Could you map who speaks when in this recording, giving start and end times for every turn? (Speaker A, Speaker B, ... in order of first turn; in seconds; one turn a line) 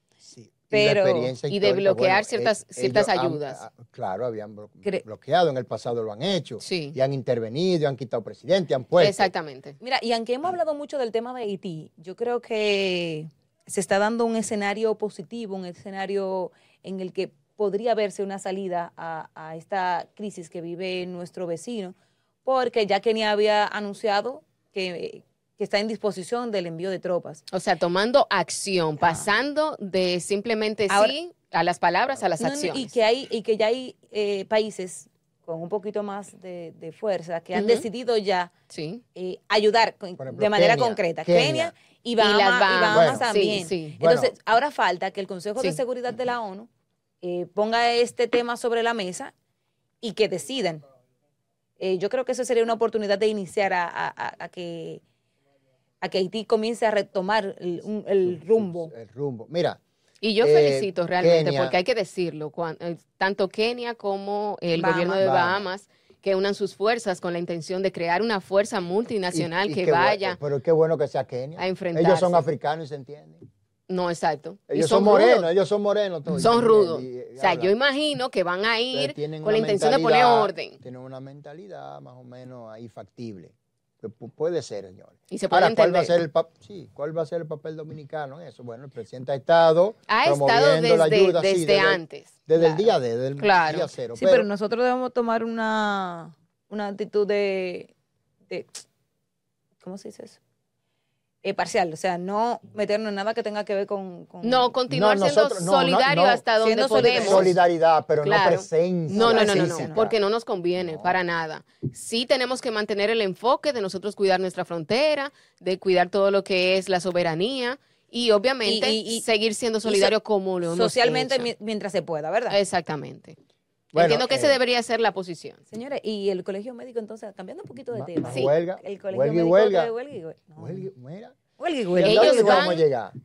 Speaker A: 0.3-9.3
Speaker B: 0.7-1.3
Speaker C: 1.5-3.6
Speaker C: 6.6-7.0
Speaker C: 9.0-9.8
Speaker B: 9.8-27.4
Speaker C: 27.5-32.9
Speaker B: 29.0-29.3
Speaker B: 30.9-31.1
Speaker B: 32.4-38.5
Speaker C: 37.5-37.9
Speaker C: 38.7-39.0
Speaker B: 39.1-46.7
Speaker A: 40.2-41.7
Speaker C: 42.2-44.0
Speaker A: 42.9-43.3
Speaker A: 44.0-44.3
Speaker B: 47.2-49.3
Speaker B: 50.0-50.8
Speaker B: 51.8-55.0
Speaker B: 56.0-58.9
Speaker A: 58.2-59.8
Speaker C: 60.2-70.4
Speaker A: 60.4-61.8
Speaker B: 64.7-65.2
Speaker A: 65.2-65.7
Speaker A: 69.3-73.4
Speaker C: 71.6-72.4
Speaker C: 73.9-75.5
Speaker A: 74.7-77.7
Speaker C: 76.3-80.8
Speaker A: 78.9-94.5
Speaker C: 85.3-86.2
Speaker C: 90.1-93.9
Speaker B: 94.2-97.9
Speaker B: 98.5-98.8
Speaker B: 99.8-100.4
Speaker B: 101.4-104.7
Speaker C: 104.4-107.6
Speaker A: 104.9-106.4
Speaker B: 106.6-107.5
Speaker A: 106.9-110.2
Speaker C: 108.2-121.5
Speaker B: 109.1-110.0
Speaker A: 110.8-111.2
Speaker B: 118.7-119.2
Speaker B: 119.8-122.6
Speaker C: 122.5-123.4
Speaker A: 123.9-124.6
Speaker C: 123.9-125.6
Speaker B: 125.7-130.9
Speaker A: 127.9-129.9
Speaker A: 130.6-131.3
Speaker B: 131.6-132.7
Speaker C: 131.9-132.8
Speaker A: 132.0-133.1